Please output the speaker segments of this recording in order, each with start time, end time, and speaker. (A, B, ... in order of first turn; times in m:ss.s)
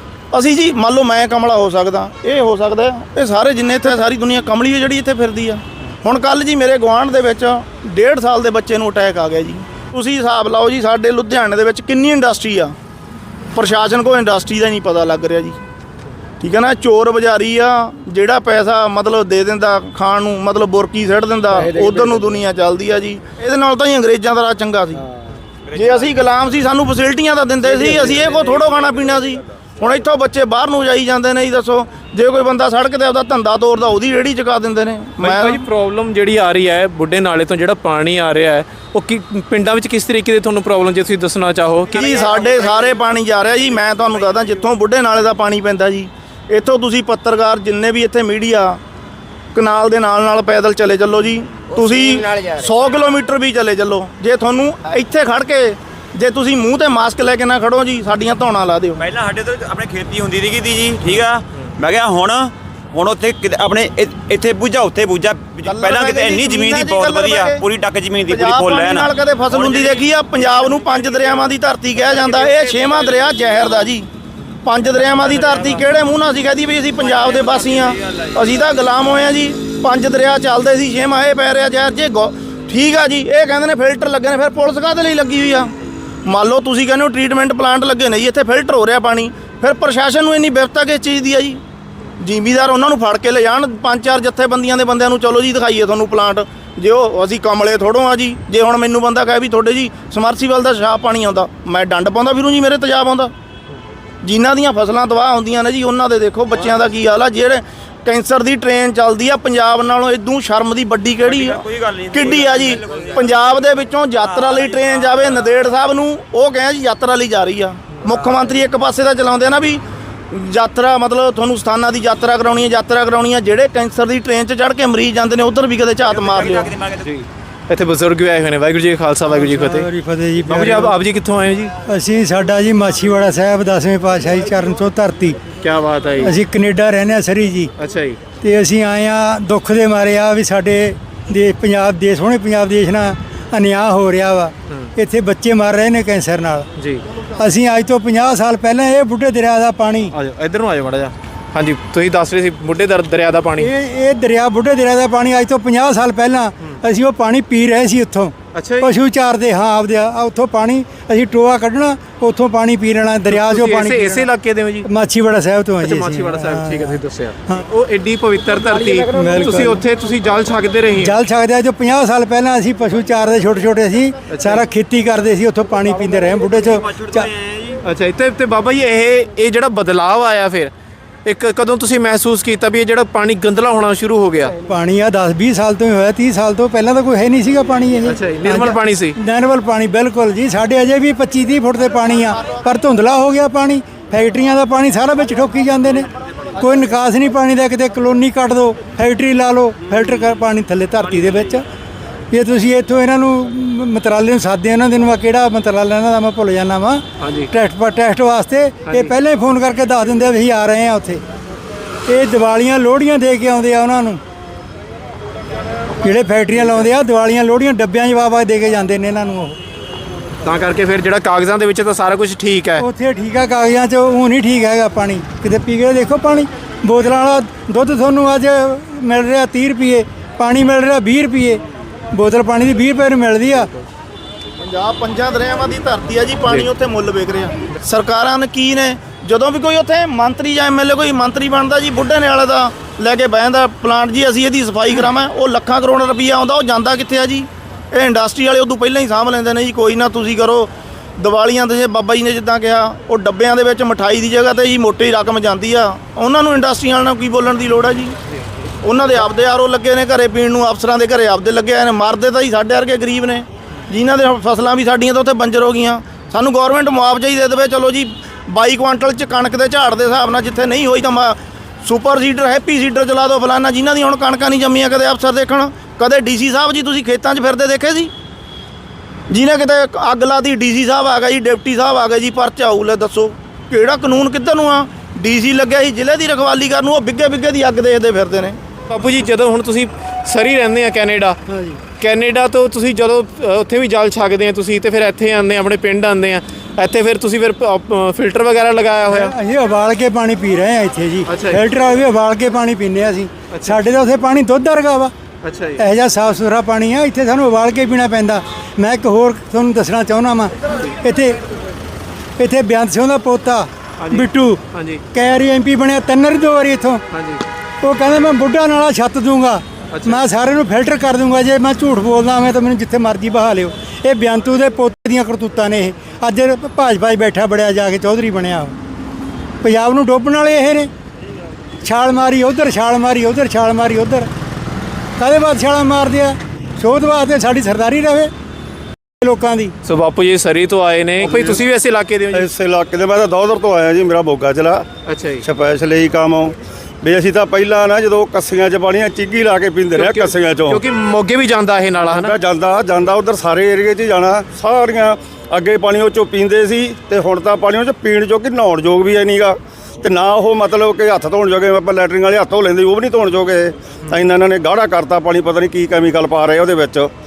0:00.3-0:12.8 A
0:13.5-0:15.6 A
0:16.4-0:25.1 A
0:25.7-0:35.6 A
0:35.2-0:42.1 B
0:41.9-0:48.8 A
0:42.2-0:42.8 C
0:49.5-0:59.0 A
0:51.7-0:52.7 C
0:59.0-1:10.0 C
1:05.6-1:07.7 A
1:08.3-1:14.1 A
1:14.6-1:25.7 A
1:17.2-1:17.8 C
1:26.3-1:31.6 A
1:32.2-1:43.3 A
1:44.2-2:06.7 A
1:51.2-1:55.5 C
1:58.1-1:58.4 C
2:06.0-2:07.0 C
2:07.0-2:09.9 B
2:09.3-2:11.0 D
2:10.5-2:11.7 B
2:11.9-2:15.4 D
2:15.6-2:16.4 B
2:16.2-2:17.7 D
2:17.8-2:18.2 B
2:18.4-2:26.7 D
2:26.8-2:27.0 B
2:27.4-2:30.1 D
2:30.1-2:33.7 B
2:33.6-2:44.3 D
2:38.5-2:38.9 B
2:43.3-2:44.9 B
2:44.8-2:47.0 D
2:45.8-2:51.2 B
2:49.1-2:49.8 D
2:51.0-2:57.3 D
2:54.3-2:54.6 B
2:56.6-2:57.8 C
2:57.8-3:00.7 B
3:01.3-3:04.5 B
3:04.7-3:21.6 D
3:08.1-3:09.2 B
3:22.3-3:31.2 D
3:27.2-3:27.5 B
3:32.1-3:34.2 D
3:36.0-3:39.6 D
3:40.4-3:42.8 B
3:42.8-3:53.7 D
3:54.6-4:18.2 A
4:18.8-4:38.1 A
4:39.3-4:48.6 A
4:48.9-4:51.4 B
4:51.5-4:51.8 D
4:52.0-4:59.3 B
4:59.1-5:05.1 D
5:01.3-5:01.6 B
5:03.5-5:03.8 B
5:05.4-5:05.8 B
5:05.8-5:11.4 D
5:12.4-5:17.0 D
5:14.0-5:15.0 B
5:17.1-5:17.4 B
5:17.8-5:28.8 D
5:19.9-5:20.2 B
5:29.6-5:30.9 D
5:31.8-5:34.3 D
5:35.2-5:38.3 D
5:39.2-5:39.7 D
5:39.8-5:42.5 B
5:41.2-5:41.6 E
5:42.3-5:44.8 E
5:45.1-5:45.4 B
5:45.4-5:50.8 E
5:50.0-5:52.3 B
5:52.1-6:07.1 E